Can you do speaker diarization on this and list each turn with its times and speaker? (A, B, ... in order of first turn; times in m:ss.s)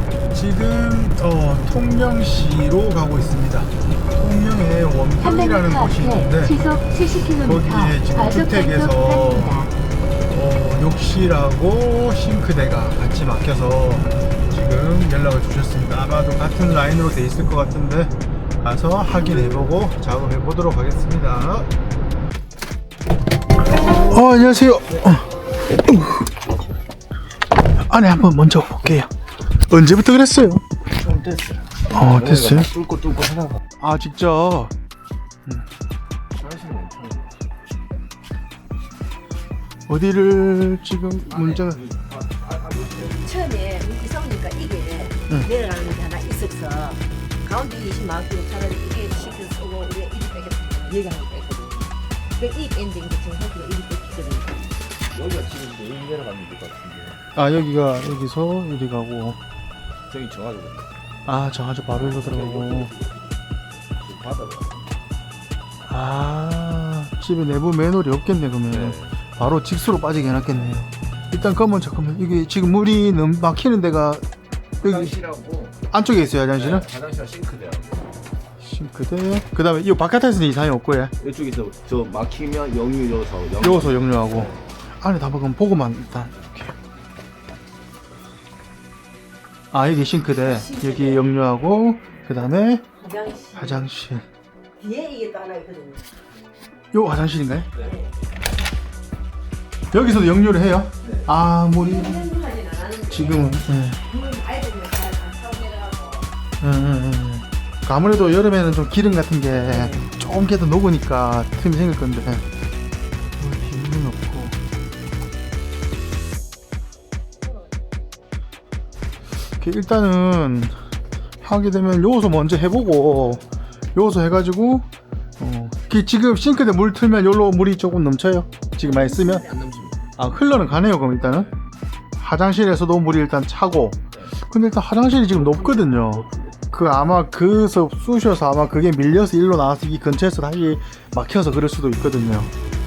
0:00.3-0:06.6 A
0:05.2-0:09.7 B
0:07.4-0:09.7 A
0:10.3-0:21.7 A
0:24.0-0:26.3 A
0:27.8-0:29.1 A
0:29.7-0:30.6 A
0:31.0-0:33.6 C
0:31.9-0:32.7 A
0:33.8-0:34.7 A
0:36.3-0:37.5 C
0:39.9-0:41.8 A
0:41.3-0:43.2 C
0:43.2-0:54.6 D
0:55.1-0:57.2 C
0:57.3-0:59.4 A
1:00.1-1:00.9 C
1:01.2-1:02.9 A
1:01.9-1:03.3 C
1:04.0-1:04.9 C
1:05.9-1:14.2 A
1:08.7-1:09.1 C
1:14.8-1:15.8 C
1:14.8-1:15.2 A
1:15.9-1:16.9 A
1:16.5-1:18.1 C
1:18.6-1:21.1 A
1:21.2-1:24.6 C
1:23.6-1:26.7 A
1:29.7-1:32.8 A
1:30.4-1:31.2 D
1:33.0-1:33.8 D
1:33.5-1:34.2 A
1:34.8-1:36.1 D
1:36.9-1:37.7 A
1:37.8-1:38.1 D
1:39.9-1:42.3 A
1:41.0-1:41.3 C
1:41.7-1:46.3 D
1:43.1-1:44.0 A
1:46.6-1:52.4 A
1:49.7-1:50.0 D
1:53.4-1:54.6 A
1:59.6-2:00.8 A
2:01.4-2:03.4 A
2:03.9-2:04.8 A
2:05.4-2:09.4 A
2:08.9-2:10.1 C
2:10.2-2:11.5 A
2:11.3-2:11.6 C
2:12.2-2:22.5 A
2:15.4-2:16.5 C